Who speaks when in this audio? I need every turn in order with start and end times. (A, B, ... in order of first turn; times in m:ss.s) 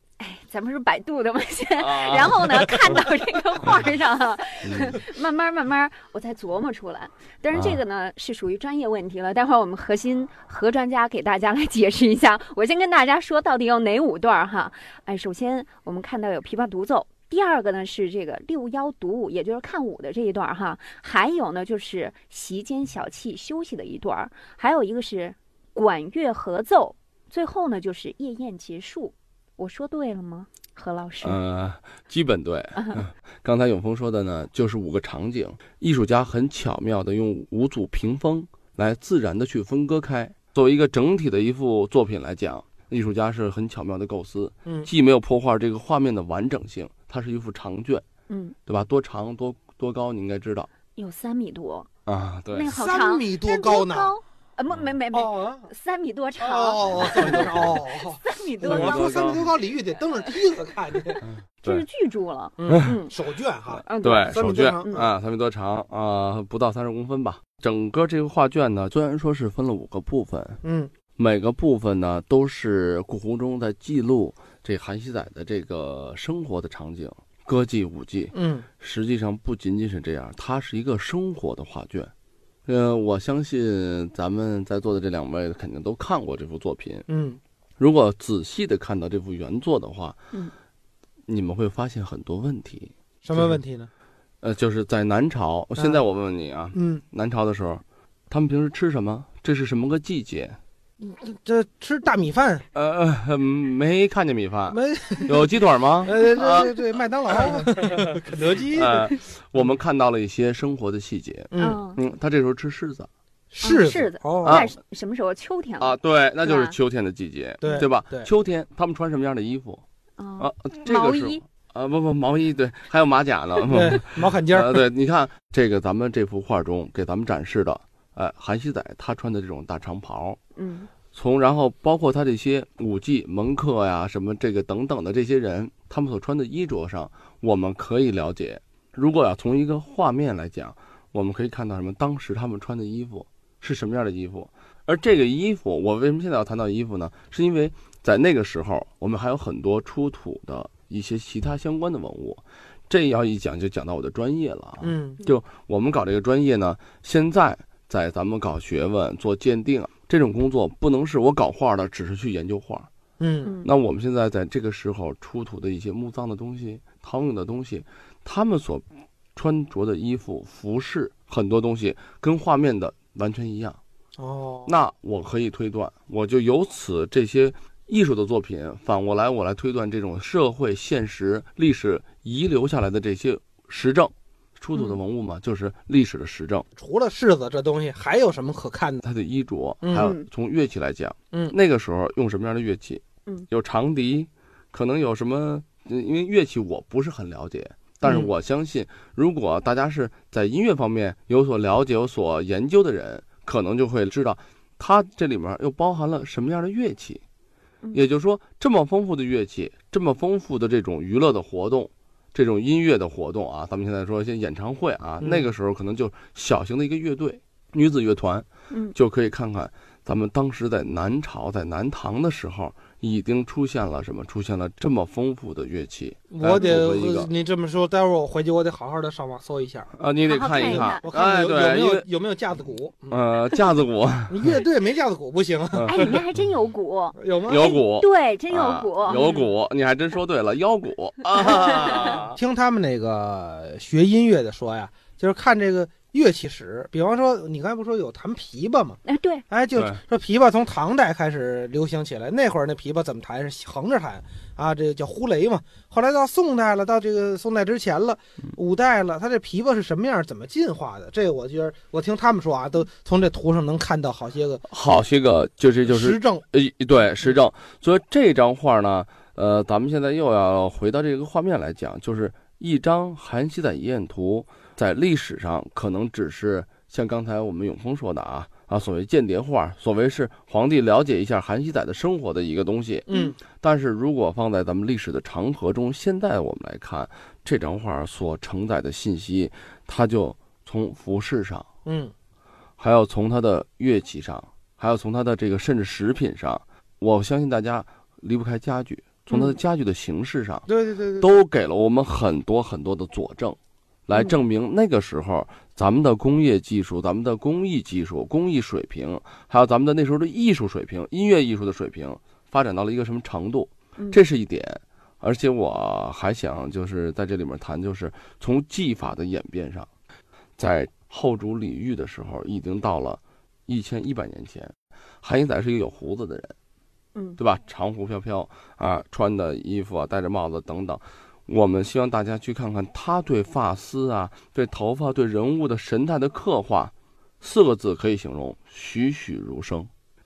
0:00.2-0:31.4 A
0:01.8-0:02.4 B
0:04.6-0:05.0 B
0:07.5-0:07.8 B
0:31.2-0:48.0 B
0:48.3-0:48.6 A
0:48.6-0:50.7 B
0:50.9-0:51.9 A
0:52.0-0:52.7 B
0:52.5-0:59.2 A
0:52.7-0:54.1 C
0:55.1-0:55.7 C
0:56.4-1:01.2 C
0:56.9-0:57.7 B
0:58.6-0:59.5 B
1:01.1-1:03.1 A
1:01.2-1:01.8 B
1:02.6-1:05.1 C
1:03.9-1:05.1 A
1:04.0-1:10.6 B
1:10.6-1:10.9 C
1:11.2-1:22.1 B
1:18.3-1:18.6 C
1:22.6-1:27.0 B
1:27.1-1:27.4 C
1:27.8-1:30.2 B
1:31.3-1:33.6 B
1:33.2-1:33.9 C
1:34.4-1:40.6 B
1:35.8-1:36.0 C
1:36.7-1:37.0 C
1:41.0-1:42.6 C
1:42.7-1:46.8 B
1:44.7-1:49.0 C
1:47.4-1:48.0 B
1:48.7-1:53.1 B
1:51.5-1:51.8 C
1:51.6-1:52.0 A
1:53.5-1:54.6 C
1:53.6-1:56.8 A
1:54.4-1:54.7 B
1:55.8-1:59.8 B
1:57.6-1:58.3 C
2:00.2-2:01.4 A
2:00.4-2:10.4 B
2:03.7-2:04.8 C
2:10.6-2:10.9 A
2:11.1-2:42.9 B
2:34.8-2:35.2 C
2:43.2-2:43.5 C
2:43.4-2:43.7 A
2:43.6-2:48.8 B
2:49.4-2:53.8 B
2:54.2-2:54.7 C
2:54.6-3:06.6 B
3:06.8-3:09.0 C
3:09.0-3:27.2 B
3:09.8-3:10.1 C
3:09.9-3:10.3 A
3:27.9-3:47.3 B
3:35.2-3:35.5 C
3:38.7-3:38.9 A
3:46.3-3:49.9 C
3:50.0-3:52.1 B
3:50.3-3:51.0 A
3:50.6-3:53.2 C
3:53.1-3:54.6 B
3:54.3-3:56.0 C
3:55.8-3:56.2 B
3:55.9-3:59.5 A
3:57.2-3:57.8 C
3:57.5-4:02.4 B
4:02.3-4:24.6 C
4:09.0-4:09.4 A
4:24.7-4:51.7 B
4:25.9-4:26.4 C
4:43.1-4:43.4 A
4:51.8-4:52.1 C
4:52.8-5:00.6 B
4:59.3-4:59.6 A
5:00.7-5:01.3 C
5:01.2-5:19.9 B
5:04.1-5:04.4 A
5:20.6-5:26.5 B
5:27.4-5:39.9 B